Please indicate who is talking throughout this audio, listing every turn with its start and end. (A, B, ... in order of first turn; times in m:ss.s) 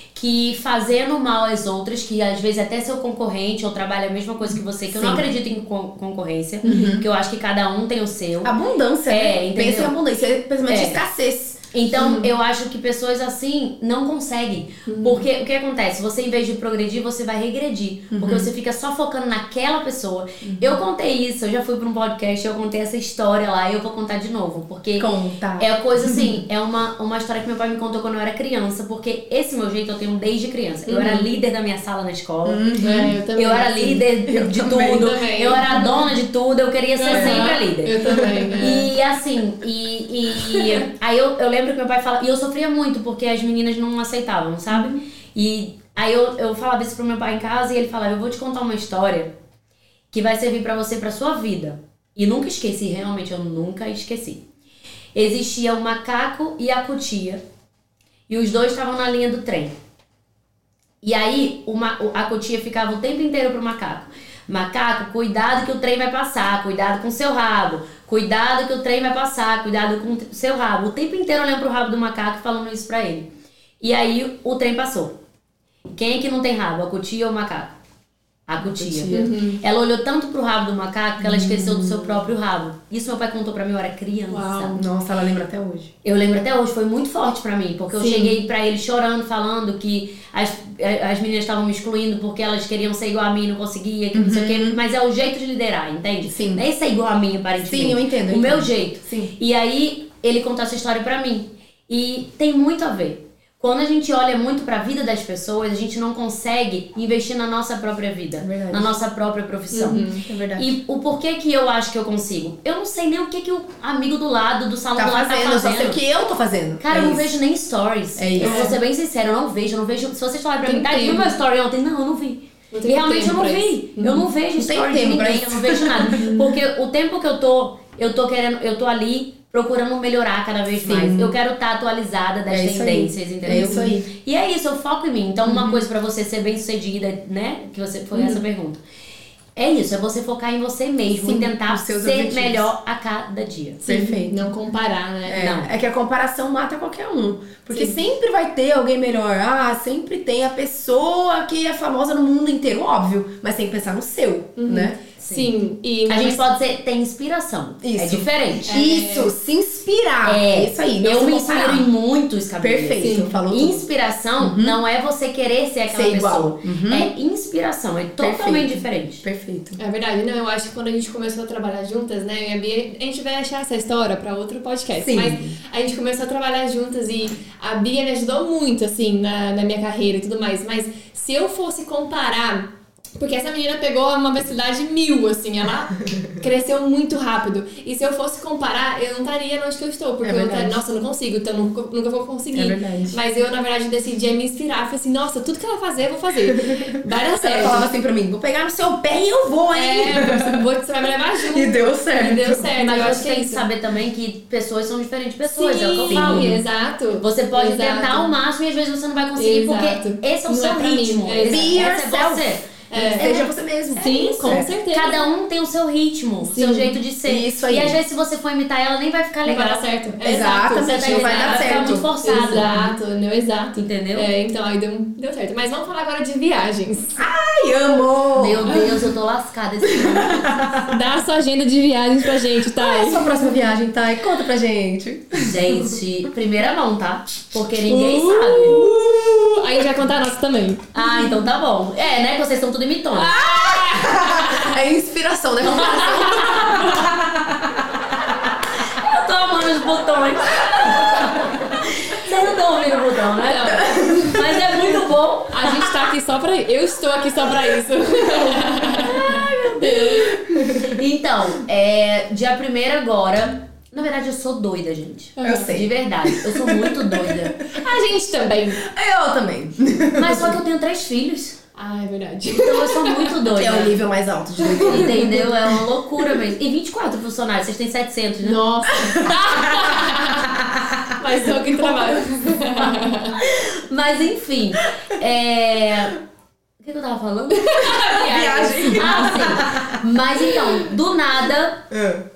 0:00.1-0:08.5 A
0:04.9-0:05.3 B
0:06.6-0:07.1 B
0:08.4-0:11.6 B
0:09.1-0:09.9 A
0:10.7-0:11.0 A
0:11.7-0:32.7 A
0:12.0-0:12.2 C
0:14.9-0:15.2 C
0:18.1-0:18.5 B
0:20.4-0:20.8 B
0:25.0-0:26.4 B
0:30.9-0:31.3 C
0:32.4-0:33.1 B
0:32.8-0:34.1 C
0:33.3-0:49.3 A
0:34.3-0:35.1 B
0:34.7-0:36.0 C
0:37.0-0:38.9 C
0:37.1-0:37.6 B
0:38.1-0:38.8 B
0:50.1-0:54.4 A
0:55.1-0:57.4 A
0:58.3-0:59.7 A
1:01.0-1:13.3 A
1:13.8-1:15.2 A
1:15.9-1:17.7 A
1:18.5-1:24.8 A
1:18.6-1:19.3 B
1:19.1-1:19.6 C
1:21.2-1:22.2 B
1:24.3-1:24.9 C
1:24.7-1:25.9 B
1:26.0-1:50.0 A
1:28.0-1:28.4 C
1:34.1-1:34.8 B
1:36.2-1:36.6 B
1:37.6-1:39.3 B
1:48.4-1:48.9 B
1:49.7-1:50.2 C
1:50.2-1:50.7 B
1:50.6-1:56.0 A
1:55.0-1:57.4 B
1:56.8-2:18.8 A
1:58.2-1:58.7 B
1:58.4-1:58.8 C
2:00.6-2:01.3 C
2:02.7-2:04.3 C
2:04.6-2:06.5 B
2:10.8-2:11.4 B
2:12.5-2:14.1 B
2:13.5-2:13.9 C
2:15.5-2:15.8 B
2:19.6-2:23.8 A
2:21.1-2:22.7 B
2:23.8-2:25.5 C
2:23.8-2:24.4 B
2:25.3-2:35.0 B
2:25.4-2:25.7 A
2:27.7-2:28.0 C
2:34.6-2:36.5 C
2:35.2-2:35.5 A
2:36.1-2:38.7 A
2:37.8-2:41.9 B
2:38.7-2:39.3 C
2:40.2-2:49.2 A
2:42.6-2:43.9 B
2:43.0-2:43.3 C
2:44.4-2:44.8 B
2:45.9-2:47.1 B
2:48.2-2:49.8 B
2:49.8-3:17.9 C
2:55.0-2:55.6 B
3:10.2-3:10.8 B
3:12.5-3:13.2 B
3:16.6-3:20.6 B
3:19.7-3:23.7 C
3:21.5-3:22.7 B
3:22.8-3:26.6 A
3:25.5-3:28.3 C
3:26.1-3:26.6 B
3:27.2-3:33.5 A
3:29.4-3:31.9 C
3:31.5-3:34.7 B
3:32.9-3:35.2 C
3:34.5-3:39.9 A
3:36.4-3:37.0 C
3:37.3-3:38.0 B
3:39.5-3:47.2 C
3:40.2-3:42.1 B
3:40.8-3:42.7 A
3:43.7-3:44.3 A
3:47.2-3:49.1 B
3:48.4-3:50.7 A
3:49.9-3:51.0 B
3:50.9-3:53.4 C
3:52.7-3:56.0 B
3:55.4-3:58.9 A
3:57.9-3:59.5 B
3:58.5-4:00.9 C
4:00.9-4:03.4 A
4:03.2-4:04.8 C
4:03.3-4:08.0 B
4:05.6-4:06.8 A
4:05.7-4:07.1 C
4:08.9-4:15.6 A
4:13.4-4:14.4 C
4:13.8-4:15.0 B
4:15.5-4:20.4 C
4:19.0-4:21.0 B
4:19.1-4:20.0 A
4:20.8-4:27.6 A
4:25.4-4:25.7 C
4:25.4-4:27.7 B
4:27.7-4:28.8 C
4:28.8-4:30.6 B
4:30.2-4:31.6 A
4:31.8-4:33.4 C
4:32.5-4:34.0 A
4:33.5-4:35.7 B
4:34.7-4:35.1 C
4:34.8-4:38.9 A
4:38.4-4:40.6 C
4:39.0-4:41.2 B
4:41.2-4:43.4 C
4:41.9-4:42.1 B
4:43.5-4:46.2 A
4:46.8-4:48.1 A
4:47.6-4:49.6 C
4:47.9-4:50.0 B
4:48.9-4:51.9 A
4:51.9-4:52.2 B